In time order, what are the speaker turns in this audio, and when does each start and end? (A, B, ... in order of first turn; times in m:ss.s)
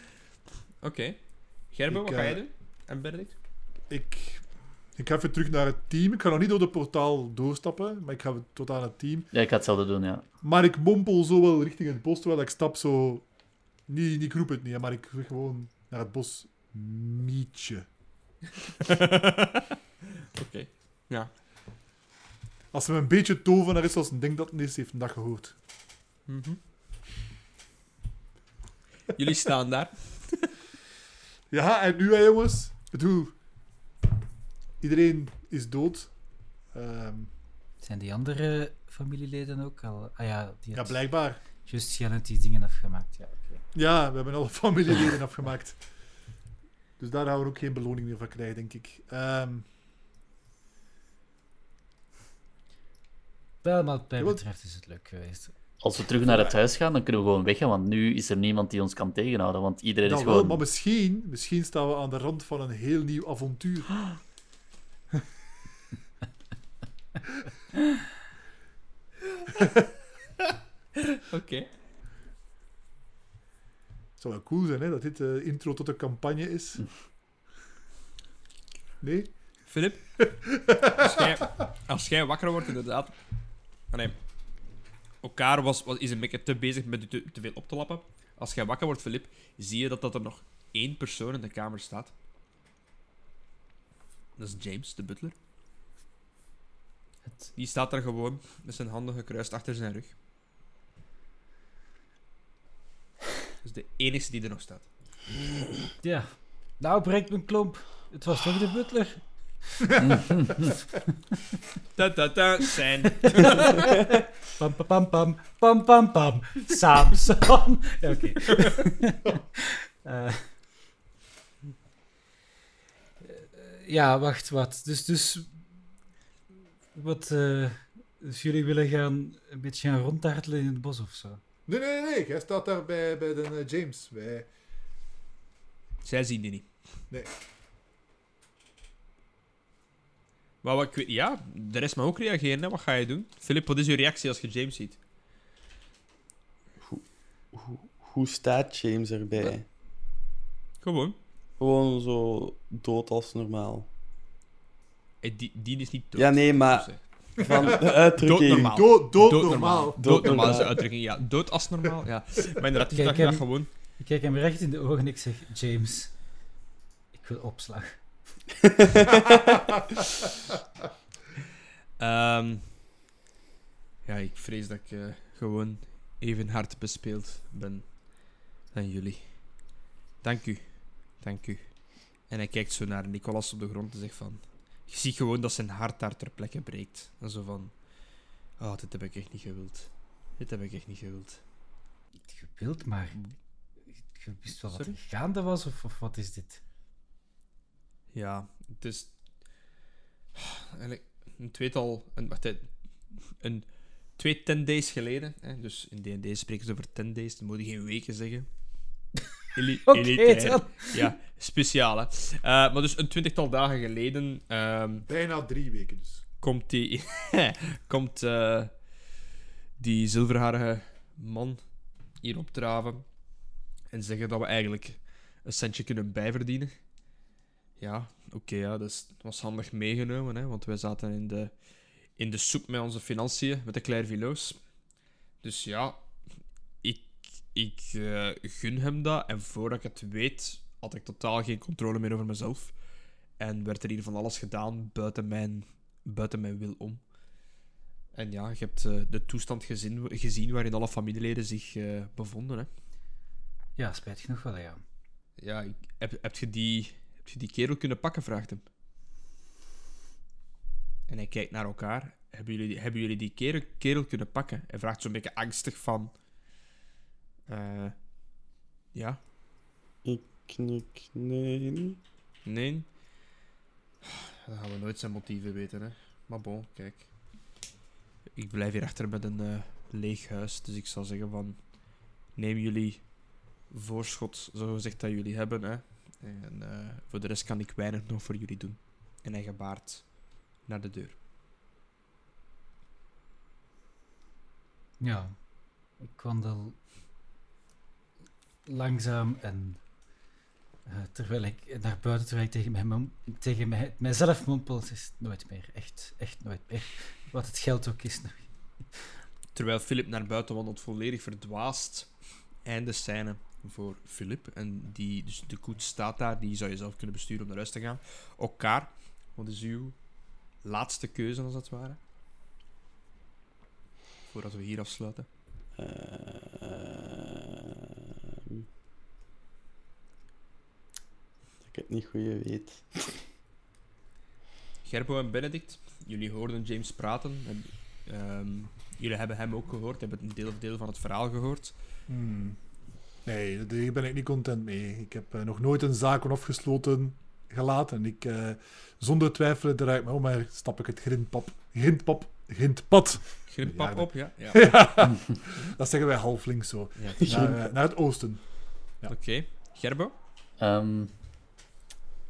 0:00.8-0:03.3 A
0:01.9-0:02.4 B
0:03.9-0:09.3 B
0:09.3-0:10.2 C
0:10.4-0:13.3 B
0:13.9-0:17.8 B
0:18.8-0:19.7 A
0:20.3-0:21.3 A
0:22.7-0:25.5 B
0:26.3-0:26.6 A
0:29.1-0:30.5 A
0:31.5-0:33.3 B
0:34.8-0:36.2 B
0:36.7-0:37.3 B
0:37.8-0:43.6 D
0:40.7-0:41.4 B
0:43.7-0:45.8 B
0:47.0-0:49.6 B
0:53.6-0:55.5 D
0:55.8-1:00.6 C
0:56.2-0:56.5 B
1:00.0-1:04.2 B
1:11.1-1:11.7 A
1:14.2-1:16.9 B
1:19.0-1:19.6 B
1:19.7-1:20.2 A
1:20.2-1:21.1 B
1:21.0-1:23.2 A
1:23.9-1:24.2 A
1:25.2-1:32.1 A
1:34.4-1:35.3 A
1:37.2-1:37.5 D
1:37.6-1:40.1 A
1:43.6-1:44.9 A
1:46.0-1:50.1 D
1:50.0-1:50.7 C
1:52.0-1:53.8 A
1:53.2-2:00.5 D
2:03.2-2:05.6 D
2:06.9-2:11.4 D
2:11.7-2:14.5 B
2:16.0-2:16.7 A
2:20.6-2:25.0 A
2:26.8-2:29.6 E
2:30.8-2:31.2 A
2:31.6-2:33.9 E
2:35.2-2:37.0 A
2:36.2-2:38.8 E
2:37.6-2:43.7 A
2:38.5-2:40.6 B
2:40.0-2:40.8 E
2:42.9-2:46.1 D
2:47.1-2:48.0 D
2:48.6-2:49.2 E
2:49.3-2:49.5 B
2:52.0-2:52.7 A
2:54.0-2:57.9 A
2:58.7-2:59.5 A
3:00.2-3:01.8 A
3:02.3-3:07.7 A
3:08.6-3:11.4 A
3:12.3-3:13.3 D
3:14.0-3:16.6 D
3:14.7-3:15.0 A
3:18.1-3:19.1 A
3:20.4-3:22.7 A
3:23.2-3:28.5 A
3:29.5-3:35.1 A
3:29.9-3:31.0 D
3:35.1-3:36.2 B
3:36.4-3:38.7 A
3:39.8-3:41.6 A
3:42.2-3:43.0 A
3:43.9-3:46.8 A
3:47.8-3:51.5 A
3:52.2-3:54.6 A
3:55.4-3:56.0 A
3:56.8-4:02.7 A
4:03.4-4:07.0 A
4:08.1-4:12.7 A
4:13.8-4:14.8 D
4:15.4-4:18.6 A
4:21.1-4:26.1 A
4:27.5-4:28.0 A
4:28.9-4:29.2 A
4:30.0-4:32.0 E
4:32.4-4:32.9 A
4:34.0-4:37.1 A
4:38.4-4:41.7 A
4:42.3-4:43.1 A
4:43.7-4:50.1 A
4:50.6-4:51.2 A
4:55.0-4:55.4 D
4:56.0-4:56.8 D
4:58.6-4:59.8 D
5:00.8-5:09.1 D
5:09.5-5:12.1 A
5:12.6-5:20.0 A
5:20.6-5:22.0 A
5:24.3-5:25.3 A
5:25.8-5:28.6 E
5:31.6-5:33.2 E
5:34.8-5:41.7 A
5:42.1-5:42.6 B
5:43.2-5:59.1 B
5:53.5-5:54.7 A
5:57.0-5:57.5 A
5:57.2-5:57.6 E
5:59.1-6:00.1 A
6:00.6-6:01.1 C